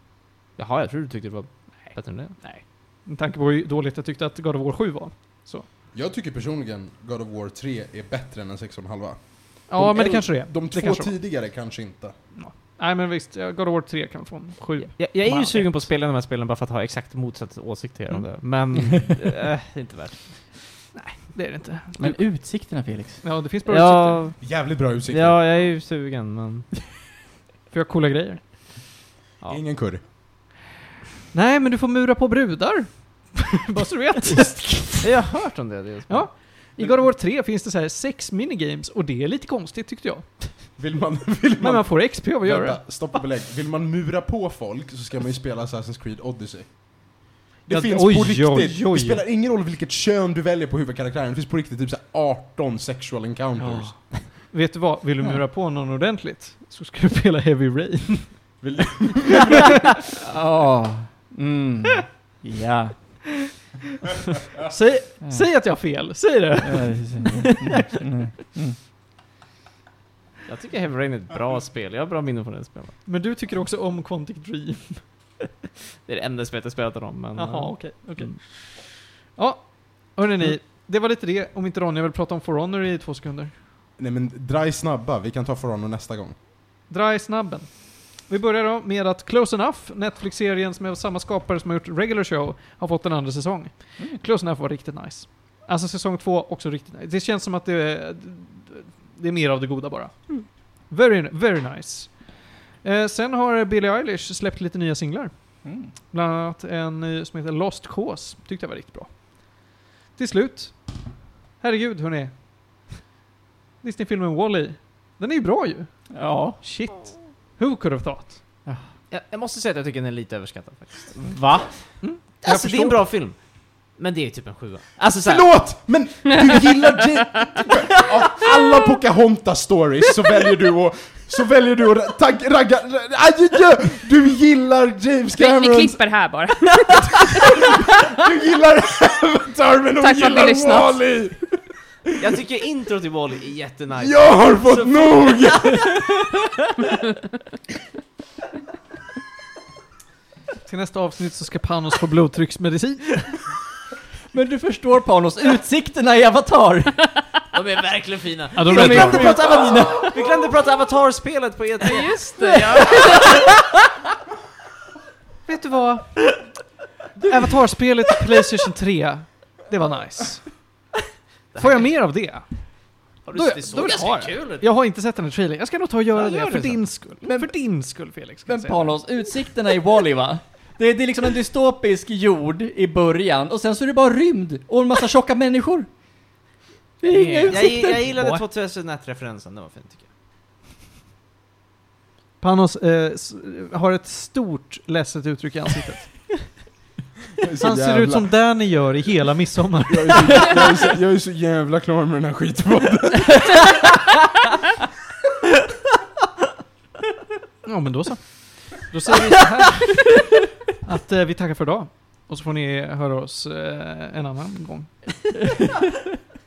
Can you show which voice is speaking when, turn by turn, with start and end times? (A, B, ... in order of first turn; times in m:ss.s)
0:00.6-0:02.4 A
0:01.8-0:05.6 B
0:05.9-0:12.1 C
0:09.7-0:11.2 B
0:12.3-0:15.9 B
0:14.8-0:20.5 A
0:20.9-0:22.2 B
0:22.0-0:23.2 D
0:23.2-0:24.2 B
0:23.6-0:26.7 A
0:24.4-0:25.4 C
0:27.7-0:28.6 B
0:29.5-0:30.0 C
0:31.3-0:35.1 B
0:35.0-0:36.4 A
0:36.1-0:40.8 B
0:40.8-0:54.0 C
0:41.6-0:43.0 B
0:47.7-0:49.2 B
0:53.6-0:54.2 D
0:54.5-0:58.6 B
0:58.6-0:59.6 C
1:00.2-1:03.3 D
1:04.7-1:07.5 B
1:05.2-1:05.5 D
1:06.6-1:08.8 D
1:10.4-1:13.0 A
1:13.0-1:15.4 B
1:16.0-1:18.3 A
1:17.3-1:23.5 B
1:24.0-1:26.3 C
1:26.9-1:52.9 B
1:45.6-1:45.9 D
1:53.8-1:55.9 B
1:56.1-1:56.6 D
1:56.6-1:57.0 A
1:56.9-1:58.4 B
1:59.1-2:05.5 A
2:02.0-2:03.0 B
2:05.2-2:16.0 C
2:06.2-2:07.7 E
2:15.3-2:18.0 E
2:17.3-2:21.6 C
2:20.0-2:21.0 E
2:22.2-2:25.8 A
2:24.0-2:26.0 C
2:30.6-2:33.4 B
2:34.3-2:37.2 D
2:37.5-2:43.4 A
2:38.6-2:39.2 B
2:38.6-2:40.2 D
2:41.8-2:43.4 E
2:45.4-2:46.3 B
2:47.2-2:50.6 B
2:51.5-2:51.9 A
2:51.6-2:59.0 B
2:53.2-2:54.6 A
2:56.1-2:56.8 A
2:57.2-2:57.6 D
2:58.5-3:05.9 D
3:07.0-3:08.2 D
3:07.1-3:10.1 A
3:07.4-3:08.4 B
3:12.4-3:16.6 B
3:17.4-3:18.3 C
3:17.6-3:20.6 B
3:19.9-3:23.8 C
3:27.6-3:35.3 B